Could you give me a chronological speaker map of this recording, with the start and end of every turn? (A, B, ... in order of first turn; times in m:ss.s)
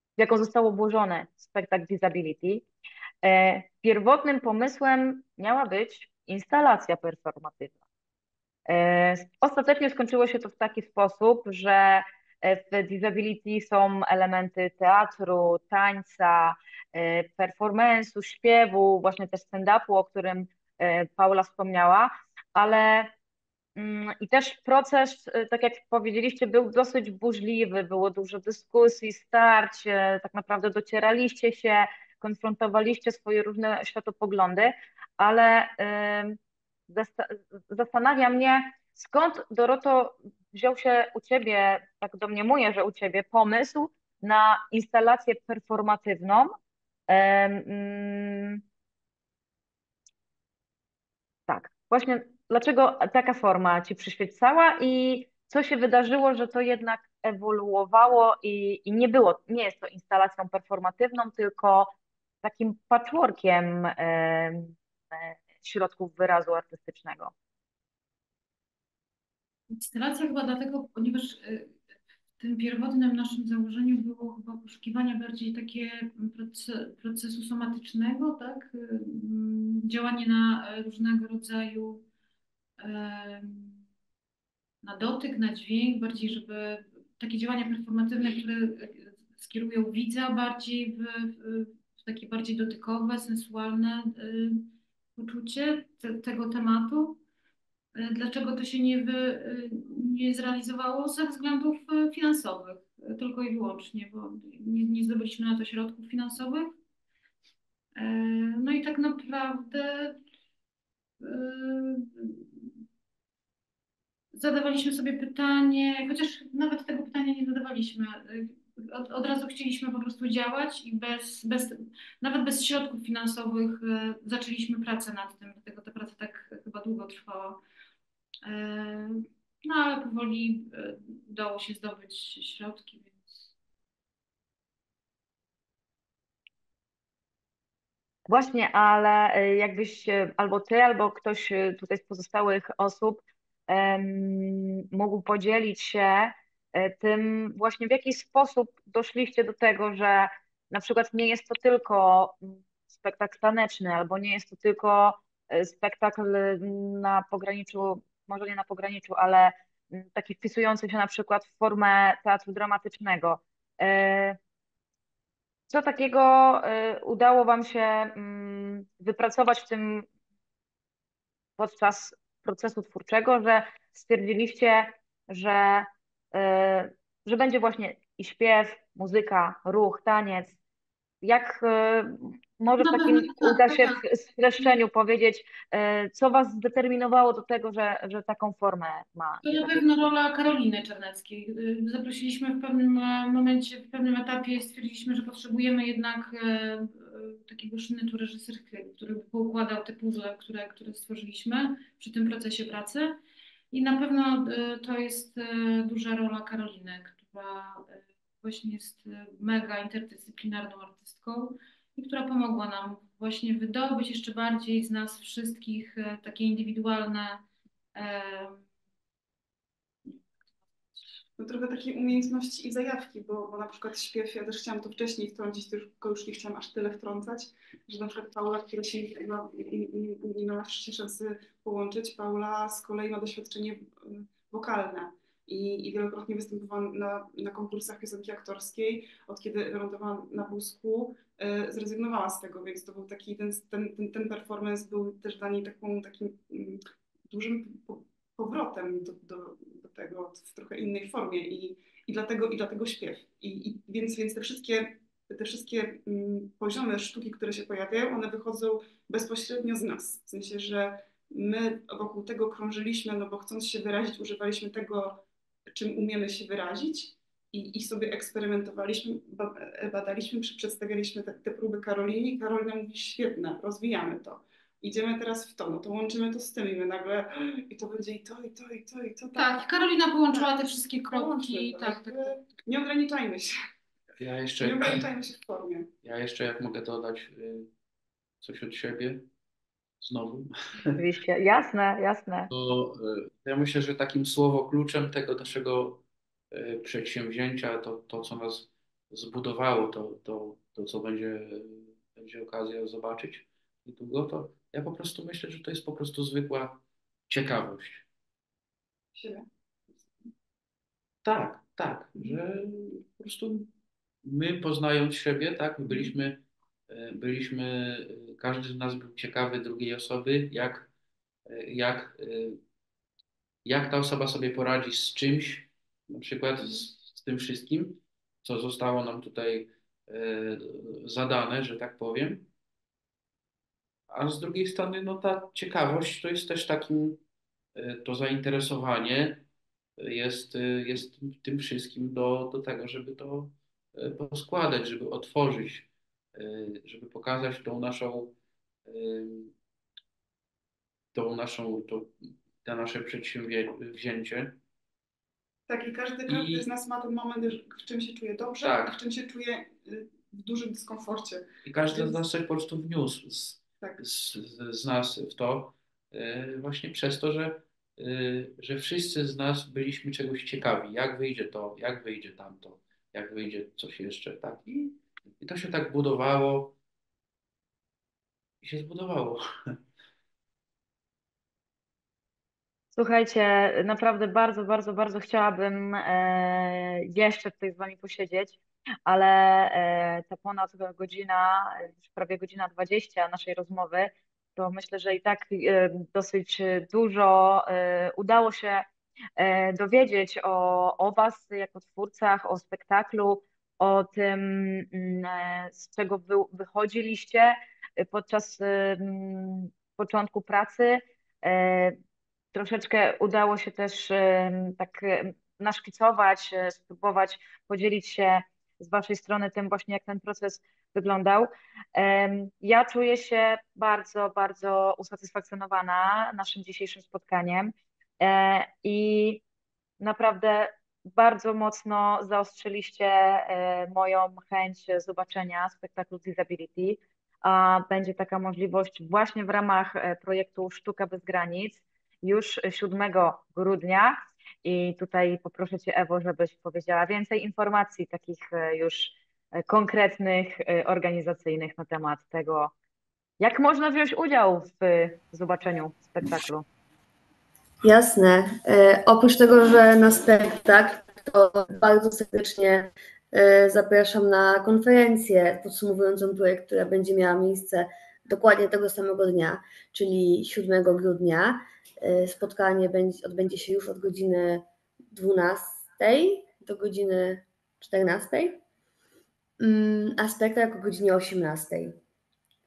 0:00.2-0:02.6 A
0:03.2-0:07.7 A
0:08.7-0:23.1 A
0:23.8-0:36.4 A
0:36.9-0:46.5 A
0:47.1-0:48.6 A
0:51.5-1:01.9 A
1:02.4-1:07.3 A
1:09.7-1:11.8 B
1:12.4-1:22.1 B
1:22.8-1:23.8 B
1:24.8-1:37.2 B
1:37.9-1:46.8 B
1:47.9-1:50.2 B
1:51.2-1:52.8 B
1:54.3-2:07.6 B
2:08.4-2:13.5 B
2:18.3-2:44.4 A
2:45.7-2:50.1 A
2:51.6-3:00.6 A
3:01.2-3:10.1 A
3:02.8-3:04.0 B
3:09.4-3:23.2 B
3:23.7-3:38.7 B
3:41.4-4:25.2 C
4:25.7-4:39.6 C
4:39.4-4:42.4 B
4:41.1-4:43.5 C
4:44.2-4:45.1 D
4:44.6-4:45.9 C
4:46.0-4:47.7 D
4:48.4-4:49.3 D
4:50.0-4:51.0 D
4:51.0-4:52.5 A
4:52.5-5:08.1 D
5:09.1-5:10.3 C
5:11.2-5:13.7 D
5:14.2-5:20.9 D
5:21.5-5:22.6 D
5:23.6-5:32.5 D
5:34.1-5:37.2 D
5:37.7-5:39.4 D
5:40.0-5:48.4 D
5:48.9-5:49.5 D
5:51.1-5:54.6 D
5:55.7-6:02.2 C
5:56.3-5:56.6 D
5:58.6-5:59.0 D
6:01.6-6:16.8 D
6:18.6-6:19.8 D
6:22.9-6:38.8 A
6:39.4-6:52.0 A
6:52.5-7:09.4 A
7:10.0-7:32.7 A
7:33.4-7:36.6 A
7:37.8-7:58.6 E
7:59.6-8:02.0 E